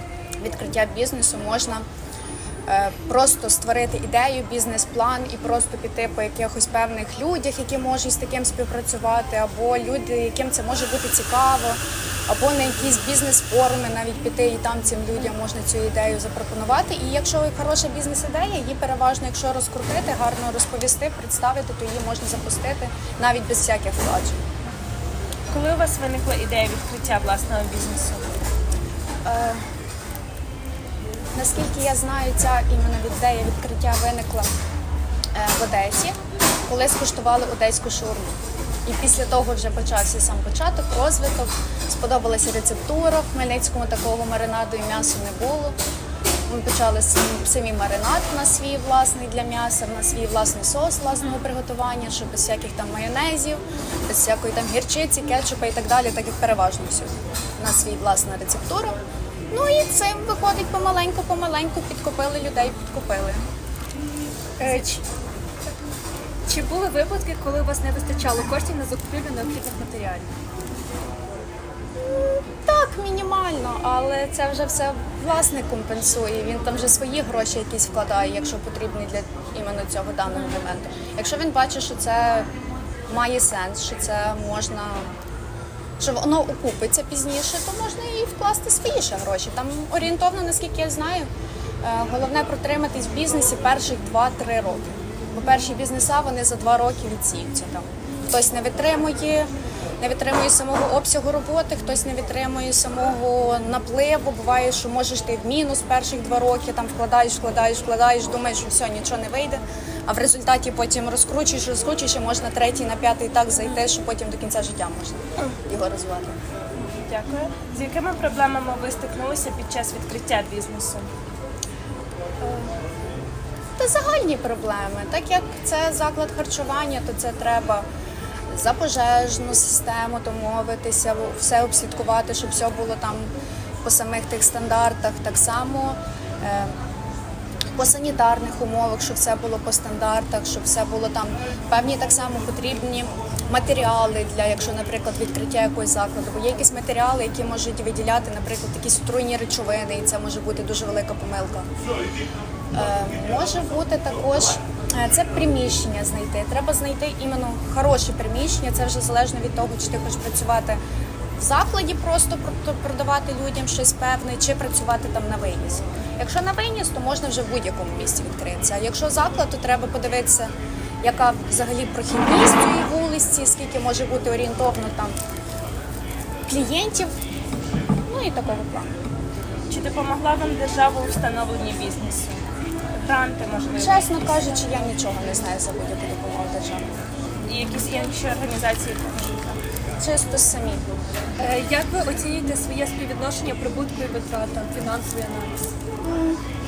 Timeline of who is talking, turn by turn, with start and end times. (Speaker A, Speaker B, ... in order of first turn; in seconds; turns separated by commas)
Speaker A: 0.4-1.8, Speaker A: 2.7-24.4, Speaker B: 25.5-28.3, Speaker A: 29.2-29.6, Speaker A: 31.3-34.5, Speaker A: 35.3-45.7, Speaker A: 46.5-59.0, Speaker A: 59.5-63.4, Speaker C: 64.6-64.9, Speaker C: 66.5-70.2, Speaker A: 72.0-82.5, Speaker A: 83.1-85.1, Speaker A: 86.0-91.3, Speaker A: 91.8-99.5, Speaker A: 100.0-116.3, Speaker B: 116.7-121.1, Speaker A: 122.4-122.7, Speaker A: 123.8-127.8, Speaker A: 128.5-133.3, Speaker A: 133.8-136.8, Speaker A: 137.8-151.7, Speaker A: 152.7-160.8, Speaker A: 161.4-175.2, Speaker A: 176.5-177.1, Speaker A: 178.1-178.9, Speaker B: 179.7-184.1, Speaker A: 183.8-186.9, Speaker B: 187.4-189.6, Speaker A: 190.0-190.9, Speaker C: 191.4-195.5, Speaker A: 196.0-196.4